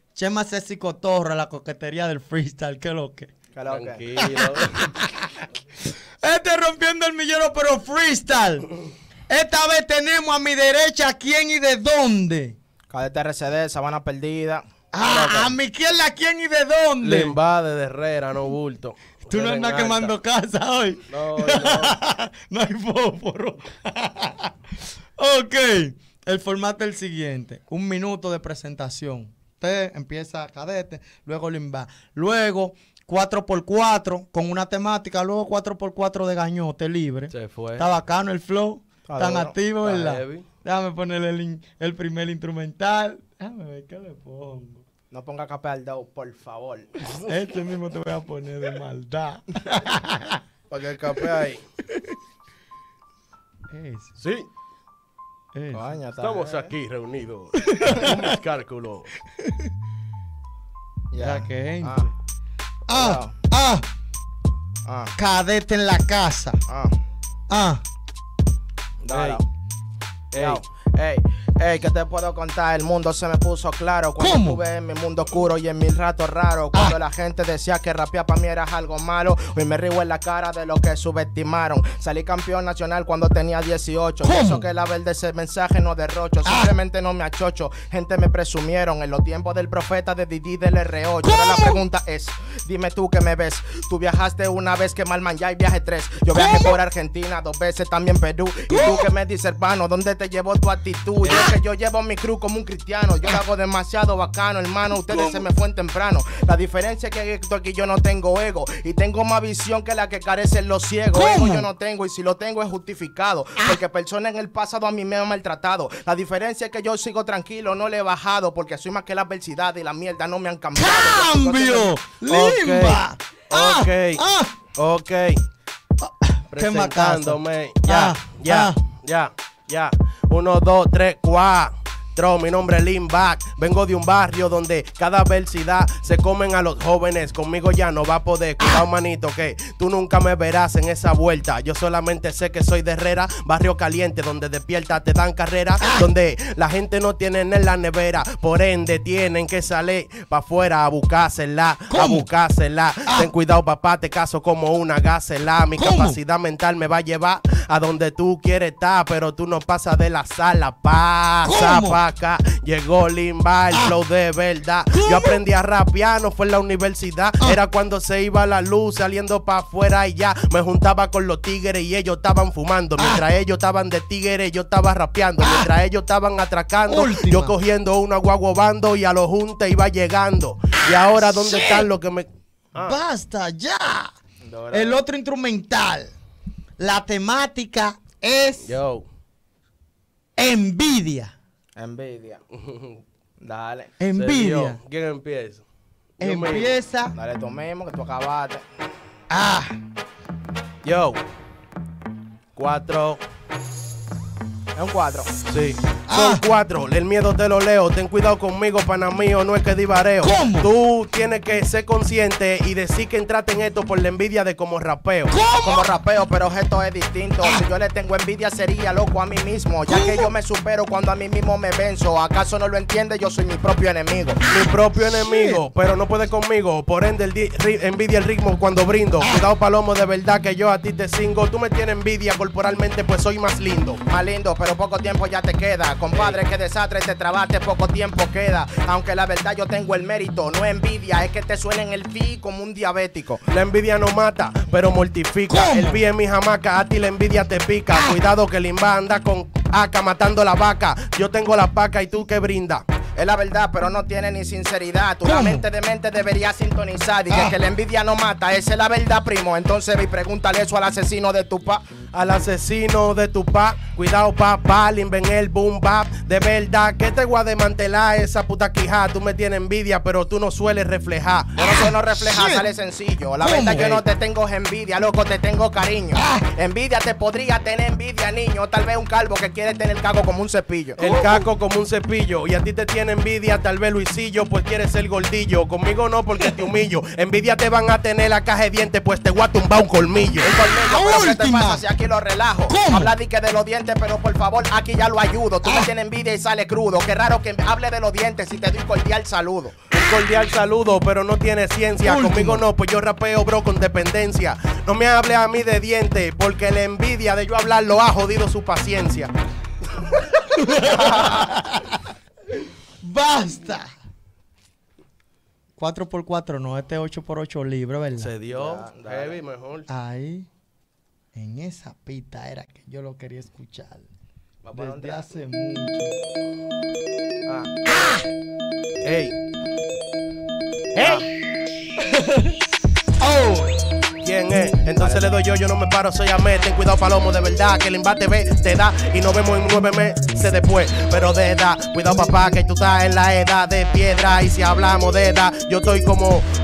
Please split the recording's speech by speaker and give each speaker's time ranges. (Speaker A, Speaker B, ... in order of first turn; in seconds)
Speaker A: 0.1-3.3, 4.2-5.5, 6.2-8.7, 9.3-12.6, 14.9-17.4, 19.3-24.5, 25.2-44.8, 47.2-50.4, 51.9-52.2, 53.7-54.1, 55.5-56.0, 57.6-58.3, 59.3-59.7, 61.2-62.1, 62.9-63.8, 65.2-66.6, 67.5-67.8, 74.2-74.6, 84.2-84.7, 86.5-86.7, 91.2-91.8, 96.3-96.8, 98.7-99.1, 104.9-105.5, 111.1-111.7, 120.8-124.5, 126.0-128.8, 145.8-146.1, 151.9-152.3, 155.8-156.2, 161.4-162.0, 164.9-165.4, 173.0-173.2, 175.4-175.7, 176.9-177.6, 180.9-181.9, 182.8-184.1, 184.7-186.1, 186.8-188.8, 190.4-191.3, 194.0-194.8, 196.2-197.2, 199.3-199.7, 206.1-206.4, 210.2-210.7, 215.3-215.9, 219.9-220.3, 224.4-225.6, 229.2-229.5, 245.5-246.0, 247.9-248.2, 255.2-255.7, 271.6-272.6, 273.4-274.0, 276.1-276.4, 281.0-281.5, 290.7-291.8, 292.7-293.1, 295.6-295.9, 302.0-302.6, 310.5-312.1, 313.0-313.9, 315.8-318.3, 319.9-320.5, 321.4-324.1, 324.7-326.2, 327.9-328.2, 330.9-331.2, 332.0-332.6, 333.2-333.7
Speaker B: 3.5-4.1, 12.9-15.5, 39.1-39.6, 45.1-46.9, 55.7-56.7, 61.1-62.1, 62.9-63.4, 64.8-65.1, 66.7-66.9, 69.0-69.4, 70.3-121.9, 184.4-185.0, 191.8-192.4, 193.4-193.9, 197.2-198.7, 204.8-205.3, 215.6-224.4, 234.1-243.4, 253.2-261.9, 271.6-281.0, 290.4-299.8, 318.5-319.4, 324.6-325.3, 331.0-331.2, 335.0-335.3
Speaker C: 3.7-4.9, 17.0-20.1, 21.1-22.0, 37.3-37.9, 39.8-40.5, 50.7-51.6, 54.2-54.5, 56.2-59.1, 69.1-69.4, 70.3-70.6, 122.3-124.2, 124.8-125.4, 126.5-183.0, 188.6-189.1, 192.5-193.0, 194.1-195.6, 196.2-196.8, 200.8-201.2, 202.6-203.2, 205.5-215.4, 224.5-234.0, 236.1-236.4, 243.5-252.8, 262.1-271.6, 281.0-290.5, 299.9-309.3, 310.9-311.4, 318.2-319.9, 329.0-329.4, 334.2-346.5